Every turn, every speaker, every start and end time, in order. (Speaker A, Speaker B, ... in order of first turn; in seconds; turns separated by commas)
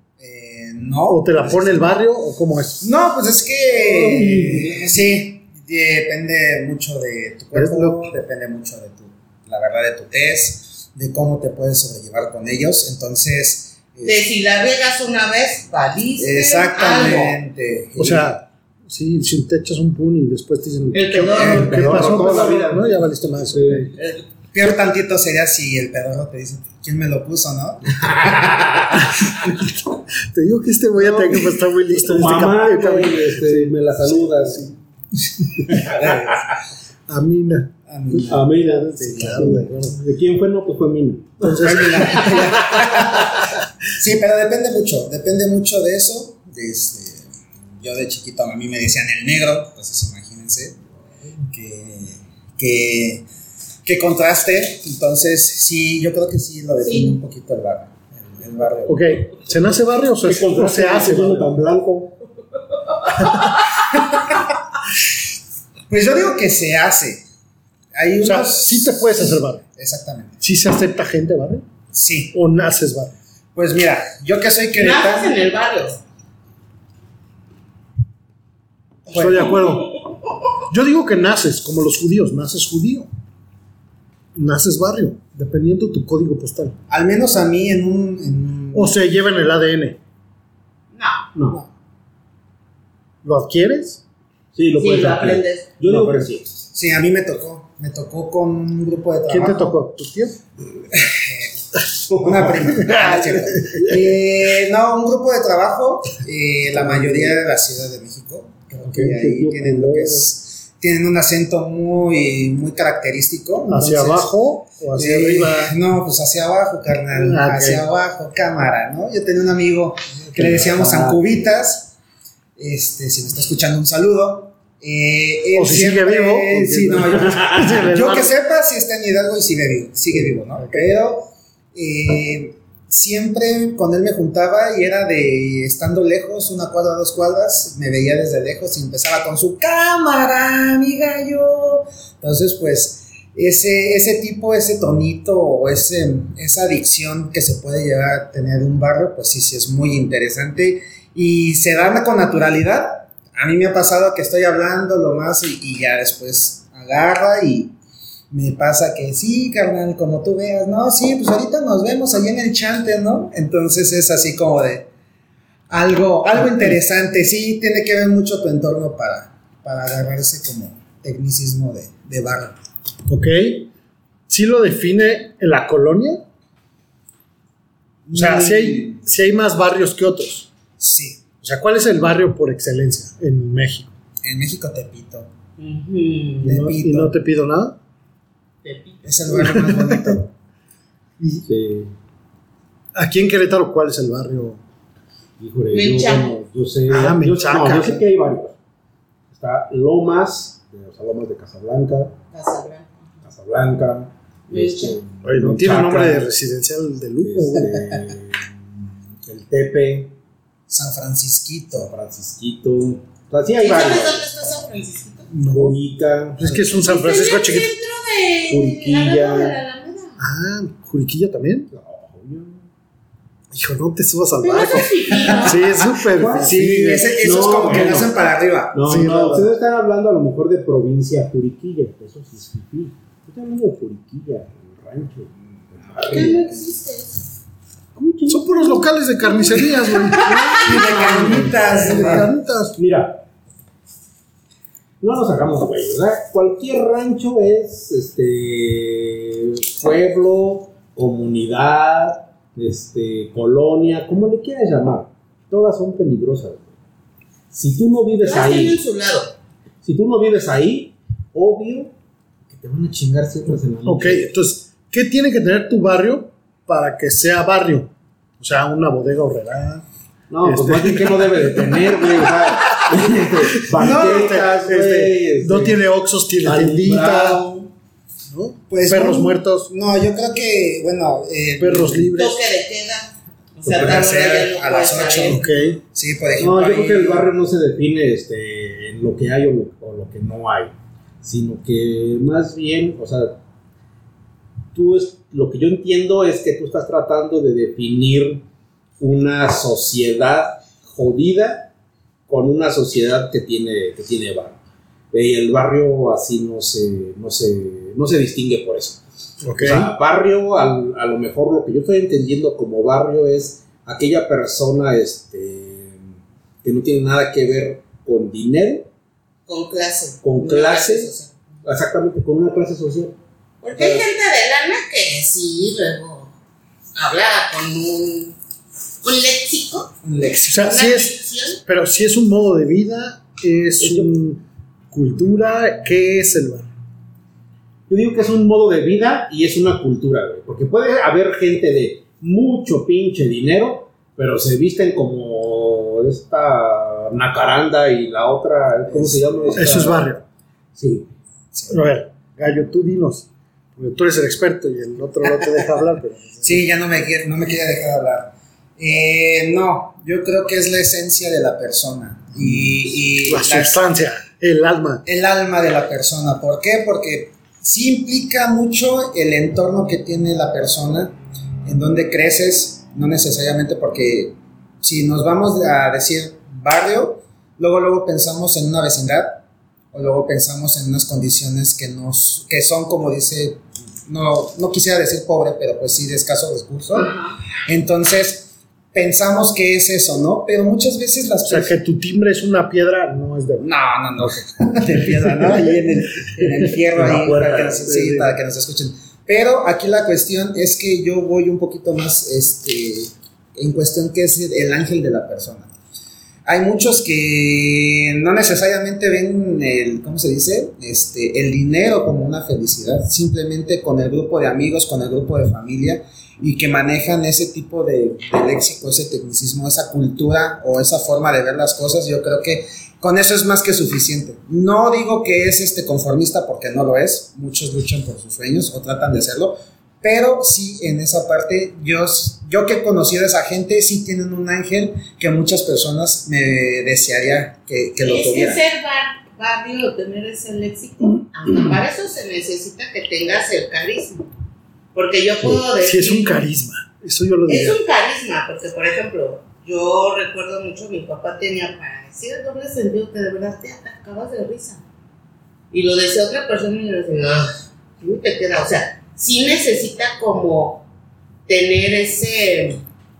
Speaker A: 0.2-2.0, Speaker B: 1.1-2.9, Speaker A: 2.8-14.2, Speaker C: 3.7-5.1, Speaker B: 7.5-8.1, Speaker D: 14.0-17.3, Speaker A: 16.2-18.4, Speaker B: 18.0-23.9, Speaker D: 20.9-22.5, Speaker C: 21.1-23.9, Speaker A: 21.3-21.8, Speaker A: 24.5-28.8, Speaker B: 29.2-29.8, Speaker B: 30.3-34.8, Speaker C: 31.0-34.6, Speaker A: 35.7-36.5, Speaker B: 37.1-40.0, Speaker A: 37.9-39.6, Speaker C: 38.3-42.9, Speaker B: 41.4-42.5, Speaker A: 41.6-47.3, Speaker A: 47.8-50.8, Speaker A: 51.4-53.2, Speaker A: 53.8-59.1, Speaker D: 56.8-57.2, Speaker B: 58.9-61.5, Speaker C: 60.2-62.1, Speaker A: 63.9-64.5, Speaker A: 65.9-67.2, Speaker A: 67.9-70.4, Speaker B: 68.2-69.6, Speaker B: 70.4-71.7, Speaker A: 71.9-72.3, Speaker B: 72.3-73.2, Speaker A: 73.5-75.3, Speaker D: 74.8-76.0, Speaker A: 79.1-79.6, Speaker B: 79.1-80.0, Speaker B: 80.6-83.1, Speaker B: 84.3-86.8, Speaker A: 86.9-89.0, Speaker B: 88.7-90.0, Speaker D: 90.9-91.3, Speaker C: 91.3-91.6, Speaker B: 93.2-94.0, Speaker C: 94.5-96.7, Speaker D: 94.8-95.7, Speaker A: 95.8-99.8, Speaker B: 99.3-100.4, Speaker A: 100.9-114.3, Speaker C: 102.1-103.9, Speaker B: 102.9-103.2, Speaker B: 106.8-107.2, Speaker C: 108.9-110.3, Speaker B: 113.7-115.8, Speaker A: 115.0-122.0, Speaker B: 117.1-117.8, Speaker B: 120.2-120.6, Speaker C: 120.4-121.2, Speaker A: 122.6-157.7, Speaker B: 125.5-128.3, Speaker B: 130.5-130.8, Speaker A: 158.3-164.9, Speaker A: 165.7-172.5, Speaker B: 173.1-173.7, Speaker B: 174.3-176.2, Speaker A: 178.1-179.0, Speaker B: 178.1-180.5, Speaker A: 180.8-181.2, Speaker B: 181.4-183.9, Speaker A: 184.2-185.3, Speaker D: 185.6-186.5, Speaker A: 186.4-187.2, Speaker B: 186.4-187.8, Speaker D: 188.6-189.6, Speaker A: 189.0-190.3, Speaker B: 189.4-190.0, Speaker B: 191.2-191.5, Speaker C: 191.5-191.9, Speaker B: 192.9-194.6, Speaker C: 195.4-198.5, Speaker D: 195.7-196.4, Speaker B: 196.9-198.0, Speaker C: 199.3-202.2, Speaker D: 202.3-203.0, Speaker C: 203.2-206.3, Speaker D: 204.5-205.0, Speaker B: 205.2-207.8, Speaker C: 207.2-208.6, Speaker C: 209.2-210.2, Speaker A: 210.7-211.9, Speaker C: 211.7-214.2, Speaker D: 213.6-215.3, Speaker B: 215.3-215.8, Speaker C: 215.5-216.7, Speaker B: 216.3-217.7, Speaker D: 216.7-220.2, Speaker C: 218.5-219.6, Speaker B: 220.2-221.7, Speaker C: 221.7-222.7, Speaker B: 223.5-227.1, Speaker D: 224.4-225.8, Speaker C: 226.1-228.1, Speaker A: 226.4-228.8, Speaker C: 228.7-236.6, Speaker B: 228.8-229.5, Speaker D: 236.0-237.3, Speaker C: 237.9-238.9, Speaker B: 238.3-240.6, Speaker D: 239.2-242.2, Speaker C: 240.2-242.2, Speaker A: 240.5-242.3, Speaker B: 241.8-242.8, Speaker C: 242.8-243.2, Speaker C: 245.0-256.7, Speaker C: 257.5-258.8, Speaker D: 258.2-259.3, Speaker C: 259.8-261.9, Speaker C: 262.5-264.3, Speaker B: 263.8-269.9, Speaker C: 270.3-275.8, Speaker B: 270.4-271.3, Speaker B: 273.5-277.4, Speaker A: 273.8-274.4, Speaker C: 276.4-277.7, Speaker B: 278.3-279.7, Speaker A: 278.7-282.1, Speaker B: 281.6-282.4, Speaker D: 282.1-285.5, Speaker C: 283.7-283.9, Speaker A: 283.7-287.3, Speaker B: 285.3-285.8, Speaker C: 286.4-293.4, Speaker C: 294.7-298.4, Speaker C: 299.0-301.7, Speaker C: 302.3-304.6, Speaker C: 305.1-309.0, Speaker B: 309.4-309.9, Speaker C: 309.6-316.0, Speaker C: 316.6-318.9, Speaker D: 319.5-321.4, Speaker C: 320.2-321.1, Speaker C: 321.6-323.1, Speaker D: 323.6-326.3, Speaker C: 323.7-324.1, Speaker D: 326.9-328.4, Speaker D: 329.0-329.9, Speaker A: 330.0-330.8, Speaker B: 330.5-336.7, Speaker D: 330.6-331.6, Speaker C: 333.8-334.1, Speaker C: 337.9-350.1, Speaker A: 348.9-349.2, Speaker B: 349.6-350.2, Speaker C: 350.8-351.1, Speaker B: 351.7-356.6, Speaker A: 356.4-363.8, Speaker B: 363.2-365.0, Speaker A: 365.1-379.4, Speaker A: 379.9-387.1, Speaker D: 386.9-387.4, Speaker A: 387.6-391.8, Speaker B: 391.4-394.4, Speaker A: 393.6-405.7, Speaker B: 395.1-395.8, Speaker B: 396.4-396.7, Speaker C: 396.9-398.2, Speaker A: 406.5-438.6, Speaker D: 438.0-444.2, Speaker D: 444.9-446.4, Speaker B: 445.4-447.8, Speaker D: 447.5-454.8, Speaker D: 455.7-460.8, Speaker D: 461.5-462.8